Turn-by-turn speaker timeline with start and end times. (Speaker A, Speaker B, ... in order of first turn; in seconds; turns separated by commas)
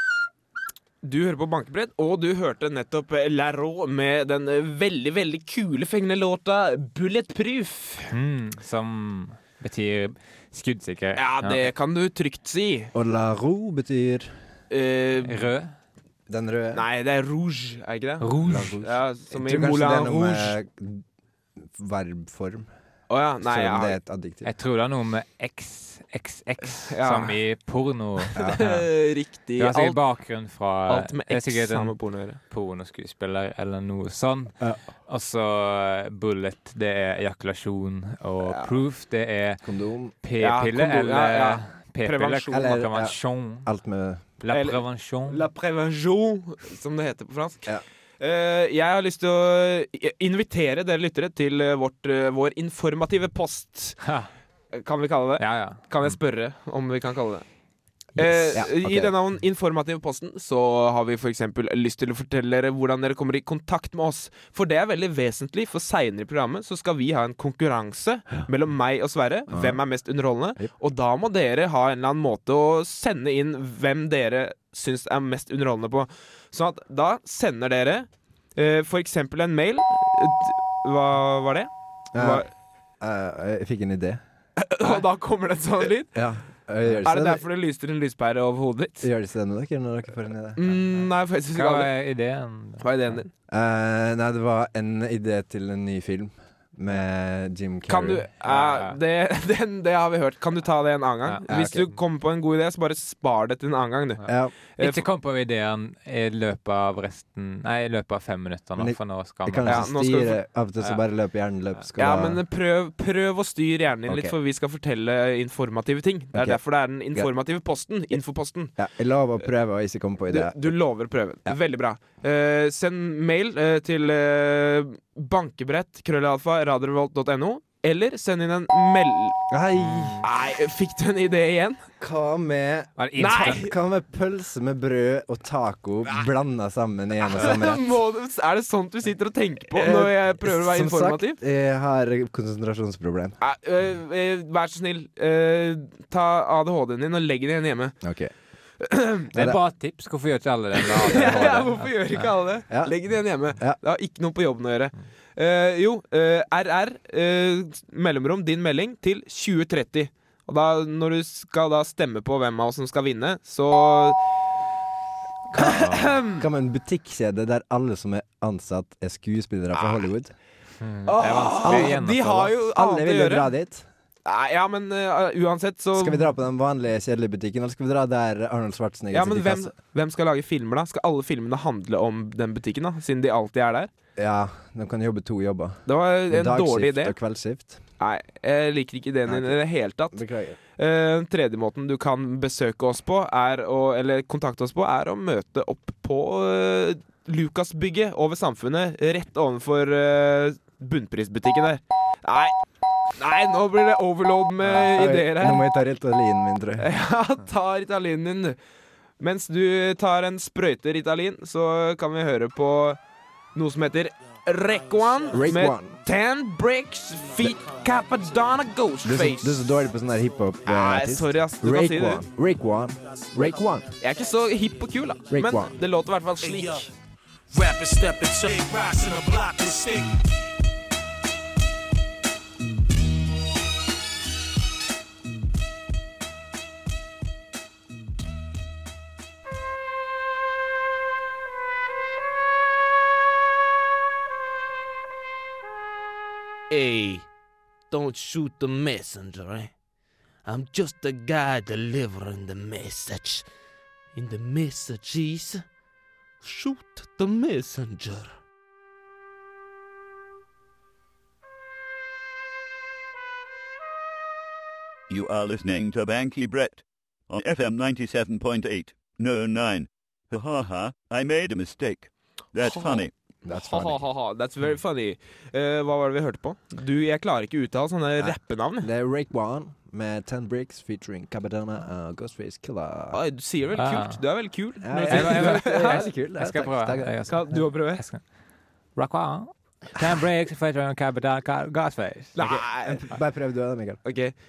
Speaker A: 1.0-8.1, Speaker B: 8.1-11.7, Speaker A: 11.2-12.9, Speaker C: 12.9-14.3, Speaker A: 14.7-15.5, Speaker B: 15.2-15.7, Speaker C: 16.3-16.8, Speaker A: 16.7-20.6, Speaker B: 18.2-18.9, Speaker C: 18.4-21.0, Speaker C: 21.7-22.7, Speaker A: 23.1-24.0, Speaker C: 23.4-24.5, Speaker B: 24.4-28.8, Speaker A: 26.9-27.4, Speaker A: 28.3-30.0, Speaker C: 28.4-28.6, Speaker B: 29.6-34.5, Speaker A: 30.9-32.4, Speaker B: 35.1-39.6, Speaker C: 39.6-40.1, Speaker B: 40.2-43.7, Speaker A: 40.4-42.8, Speaker C: 42.5-44.2, Speaker B: 44.4-45.4, Speaker A: 44.5-54.0, Speaker B: 54.0-54.3, Speaker A: 54.7-57.5, Speaker B: 55.4-55.8, Speaker A: 58.2-82.5, Speaker C: 58.2-59.1, Speaker C: 69.5-69.8, Speaker C: 82.2-82.5, Speaker C: 83.0-84.2, Speaker A: 84.6-86.2, Speaker C: 86.1-87.4, Speaker A: 87.0-89.1, Speaker C: 89.0-90.6, Speaker A: 90.6-91.9, Speaker B: 91.5-93.2, Speaker A: 92.8-93.3, Speaker C: 93.5-98.3, Speaker A: 97.9-105.0, Speaker B: 98.5-99.0, Speaker C: 101.5-101.9, Speaker C: 104.3-104.5, Speaker B: 104.8-109.9, Speaker C: 108.8-112.4, Speaker A: 109.7-110.4, Speaker A: 112.0-118.8, Speaker C: 114.1-114.3, Speaker C: 116.3-116.6, Speaker C: 118.8-120.7, Speaker A: 120.3-129.4, Speaker C: 129.5-130.3, Speaker B: 129.8-130.2, Speaker A: 130.2-131.8, Speaker C: 132.0-137.9, Speaker B: 133.0-133.7, Speaker A: 133.2-133.7, Speaker A: 137.3-141.4, Speaker C: 139.7-143.4, Speaker A: 143.4-148.0, Speaker C: 148.0-148.3, Speaker A: 148.8-149.3, Speaker C: 149.3-149.6, Speaker B: 149.3-152.3, Speaker A: 150.8-164.2, Speaker C: 151.1-151.7, Speaker C: 165.5-170.3, Speaker A: 165.6-166.5, Speaker B: 170.8-172.5, Speaker A: 171.1-173.5, Speaker C: 171.6-172.0, Speaker C: 172.6-173.9, Speaker A: 174.2-176.3, Speaker C: 176.0-179.7, Speaker A: 179.1-183.9, Speaker C: 184.2-187.8, Speaker A: 185.9-187.2, Speaker A: 188.0-190.2, Speaker C: 189.3-189.6, Speaker C: 190.1-190.6, Speaker A: 190.8-202.5, Speaker A: 203.2-205.7, Speaker C: 204.6-206.9, Speaker A: 206.8-208.6, Speaker A: 209.2-213.0, Speaker A: 213.6-219.7, Speaker C: 215.3-216.0, Speaker C: 219.0-223.9, Speaker A: 220.7-222.2, Speaker A: 224.0-226.9, Speaker C: 225.3-225.8, Speaker D: 227.5-230.1, Speaker E: 227.6-229.0, Speaker E: 246.7-247.3, Speaker E: 247.9-249.7, Speaker E: 250.4-253.5, Speaker E: 254.1-255.7, Speaker E: 256.4-258.4, Speaker F: 265.1-273.1, Speaker A: 272.7-278.9, Speaker C: 273.4-274.1, Speaker C: 278.2-283.2, Speaker A: 283.1-286.1, Speaker B: 283.8-284.2, Speaker C: 284.8-287.3, Speaker B: 285.1-288.2, Speaker A: 287.3-288.0, Speaker B: 289.0-292.4, Speaker A: 292.4-293.1, Speaker C: 292.4-294.0, Speaker A: 294.1-294.3